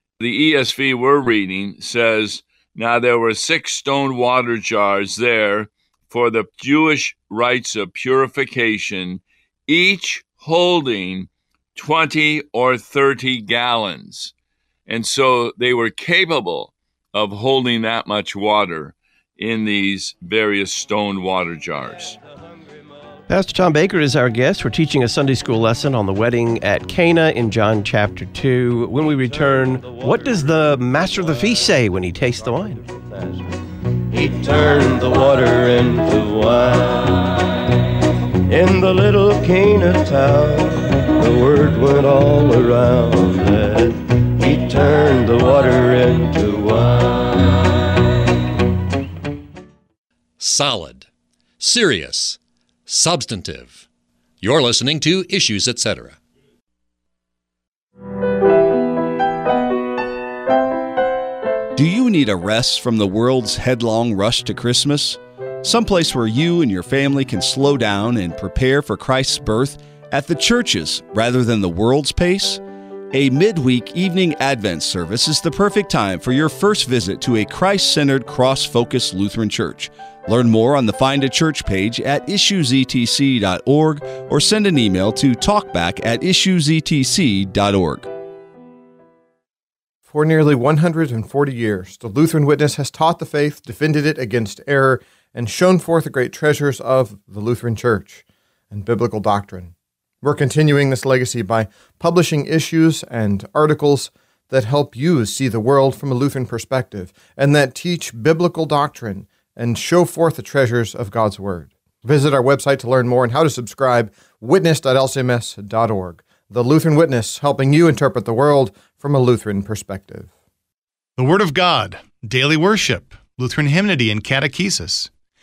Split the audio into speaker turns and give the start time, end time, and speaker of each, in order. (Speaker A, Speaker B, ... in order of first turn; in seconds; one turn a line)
Speaker A: 0.2-14.3
Speaker A: 14.9-22.2
Speaker B: 23.3-32.8
Speaker C: 29.8-30.3
Speaker C: 32.7-33.4
Speaker C: 34.1-37.4
Speaker C: 38.5-47.6
Speaker D: 50.4-51.1
Speaker D: 51.6-53.8
Speaker D: 54.4-56.2
Speaker E: 61.7-72.6
Speaker E: 73.1-88.1
Speaker F: 90.1-120.3
Speaker G: 121.2-125.1